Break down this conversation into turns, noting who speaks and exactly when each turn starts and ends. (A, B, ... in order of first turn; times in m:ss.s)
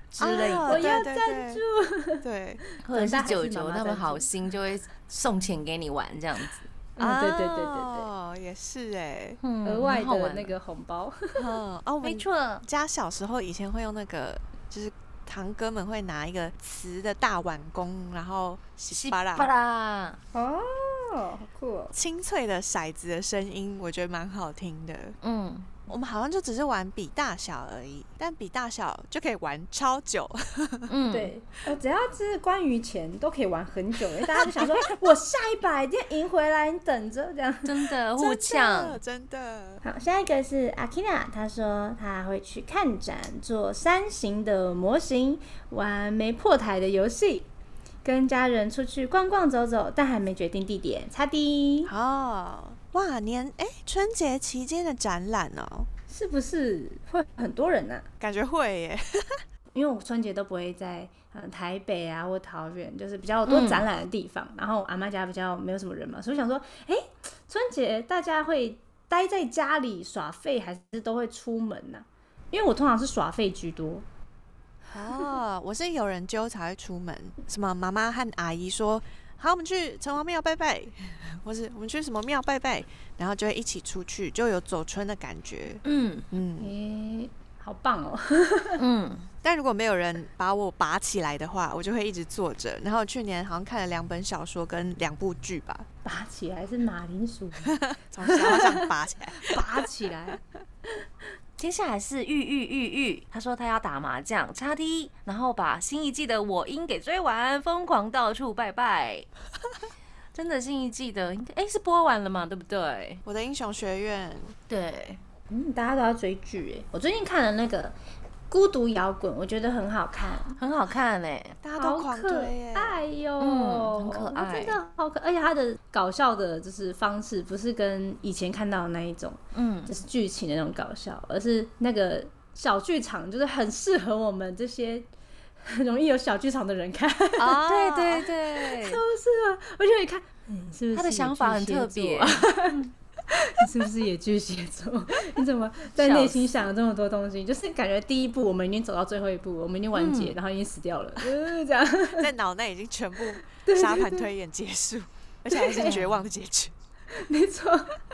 0:00.1-0:01.0 A
0:00.2-0:01.6 B
0:00.6-0:04.3 C
0:02.2-0:02.6 B
0:02.8-0:06.7 A
0:07.0-0:08.1 C
0:07.0-0:09.4 B
0:09.4-0:10.5 A
0:09.6-0:11.6 C
0:11.4-0:19.5 B
0:12.0-0:12.6 A
0:18.9-0:20.2 A
0:20.3-0:21.9 C
0:21.9-0:25.2 B
0:25.2-0:25.7 A
0:25.9-0:30.9 B
0:30.9-0:31.3 A
0:31.1-0:37.8 C
0:34.4-0:34.7 B
0:37.6-0:39.0 A
0:38.2-0:39.8 B
0:39.8-0:47.5 C
0:48.0-0:51.9 C
0:51.8-0:55.9 B
0:56.1-0:58.0 C
0:58.2-0:59.4 B
0:59.7-1:14.0 C
1:03.5-1:03.8 A
1:14.9-1:26.7 B
1:25.8-1:26.2 A
1:26.6-1:28.8 C
1:28.8-1:29.3 A
1:29.4-1:35.9 B
1:36.0-1:40.4 C
1:37.7-1:39.6 B
1:41.6-1:49.3 A
1:50.3-1:53.2 A
1:53.2-1:54.5 B
1:54.7-1:55.2 A
1:55.5-1:58.0 C
1:58.5-2:00.6 C
2:00.6-2:01.6 A
2:01.6-2:03.0 B
2:01.8-2:15.1 C
2:03.4-2:04.8 A
2:09.5-2:09.9 A
2:15.6-2:17.6 C
2:17.4-2:18.3 B
2:17.6-2:19.0 A
2:18.6-2:32.3 C
2:20.9-2:22.9 A
2:26.0-2:26.6 A
2:29.9-2:30.4 A
2:32.2-2:36.7 B
2:33.6-2:34.3 C
2:35.5-2:36.0 C
2:35.8-2:36.2 A
2:37.1-2:38.0 C